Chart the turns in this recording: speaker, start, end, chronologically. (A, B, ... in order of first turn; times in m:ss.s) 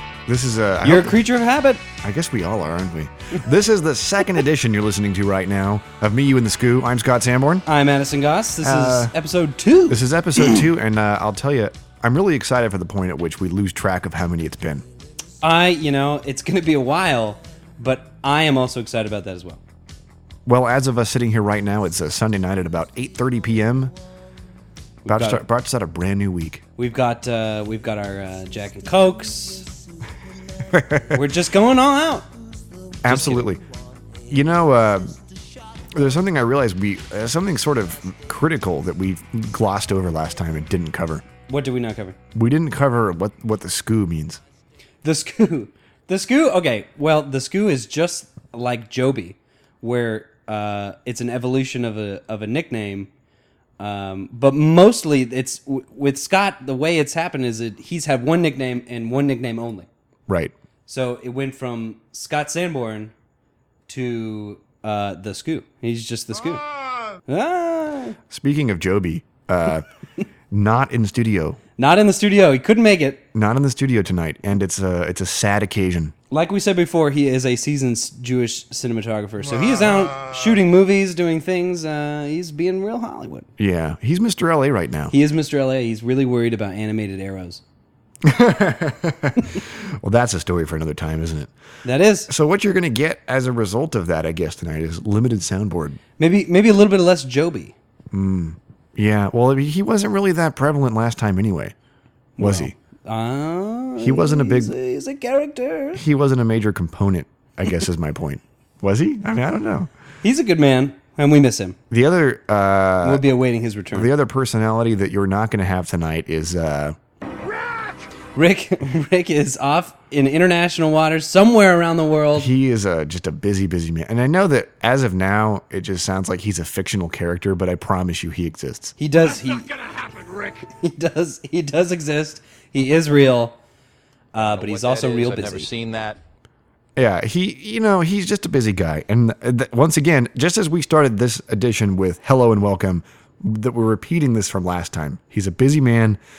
0:00.3-0:01.2 A
0:00.8-0:01.8 B
0:02.0-0:07.7 A
0:07.7-0:10.6 B
0:08.6-0:09.1 A
0:09.9-0:14.8 A
0:15.4-0:19.6 B
0:20.5-0:24.0 A
0:25.0-0:25.4 B
0:25.1-0:26.6 A
0:26.8-0:29.7 B
0:30.7-0:31.2 A
0:31.1-0:32.3 B
0:33.0-0:33.6 A
0:33.1-0:33.5 B
0:34.3-0:35.2 A
0:35.9-0:41.2 A
0:41.5-0:42.2 B
0:42.3-0:44.4 A
0:45.0-0:53.1 B
0:53.8-0:59.9 B
1:00.3-1:00.5 A
1:00.9-1:03.1 B
1:03.9-1:06.6 B
1:07.3-1:08.2 B
1:08.3-1:09.8 A
1:10.5-1:11.6 A
1:11.8-1:13.2 B
1:13.3-1:16.1 A
1:16.3-1:23.5 B
1:23.6-1:25.1 A
1:25.1-1:27.6 B
1:28.2-1:31.5 A
1:31.8-1:32.3 B
1:32.3-1:36.0 A
1:36.2-1:37.8 B
1:38.1-1:41.8 A
1:42.4-1:46.0 B
1:42.4-1:42.7 A
1:44.0-1:44.7 A
1:46.0-1:49.9 A
1:50.2-1:51.8 B
1:51.9-1:53.2 A
1:53.0-1:54.1 B
1:53.9-1:57.0 A
1:58.4-2:02.5 B
2:02.4-2:09.0 A
2:09.0-2:09.7 B
2:09.8-2:10.3 C
2:10.6-2:13.6 B
2:14.3-2:15.7 B
2:14.4-2:16.2 C
2:17.0-2:26.2 A